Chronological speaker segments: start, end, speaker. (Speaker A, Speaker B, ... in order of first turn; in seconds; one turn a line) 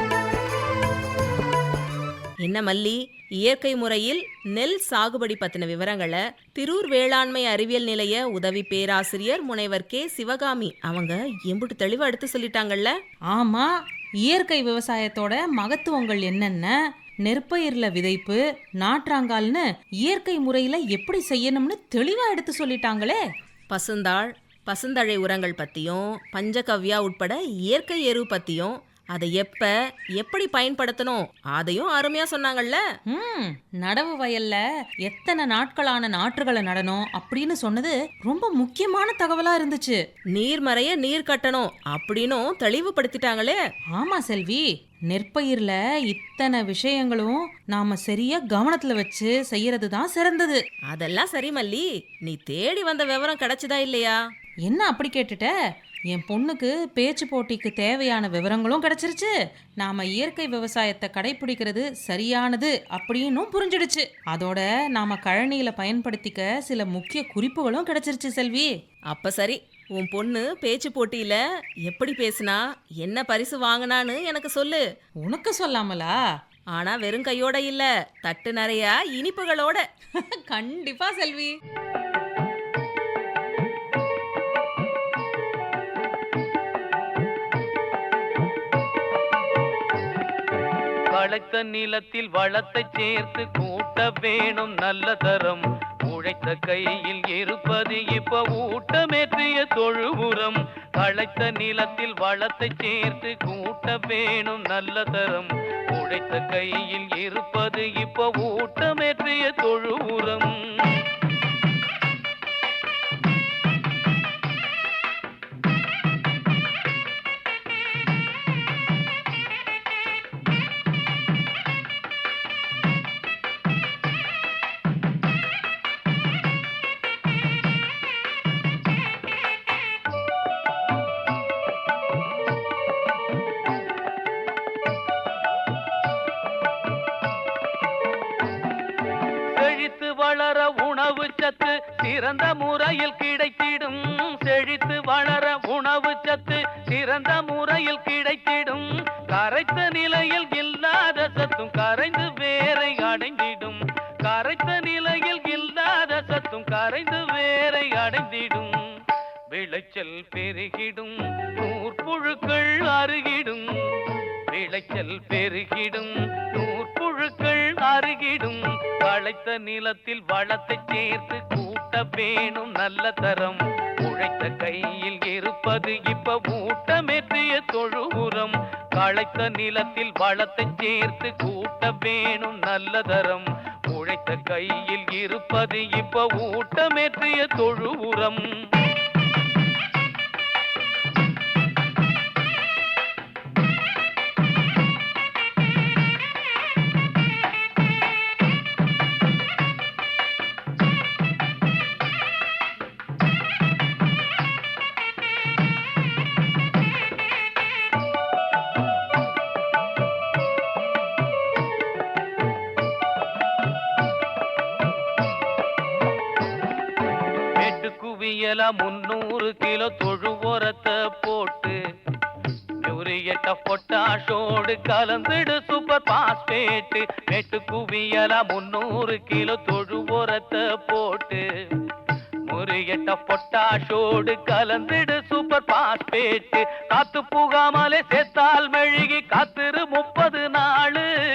Speaker A: 2.4-12.9
Speaker B: 13.3-13.7
Speaker B: 14.2-23.2
Speaker A: 23.7-32.8
Speaker B: 33.1-40.0
Speaker A: 40.3-43.6
Speaker B: 43.9-50.6
Speaker A: 50.9-54.2
Speaker B: 54.6-55.5
Speaker B: 56.1-68.7
Speaker A: 69.1-74.8
Speaker B: 75.2-76.2
Speaker A: 76.7-79.8
Speaker B: 80.2-81.5
Speaker C: 91.1-111.0
Speaker C: 139.6-158.8
Speaker C: 159.5-163.7
Speaker C: 164.5-188.4
Speaker C: 217.6-221.8
Speaker C: 222.8-231.4
Speaker C: 232.5-241.1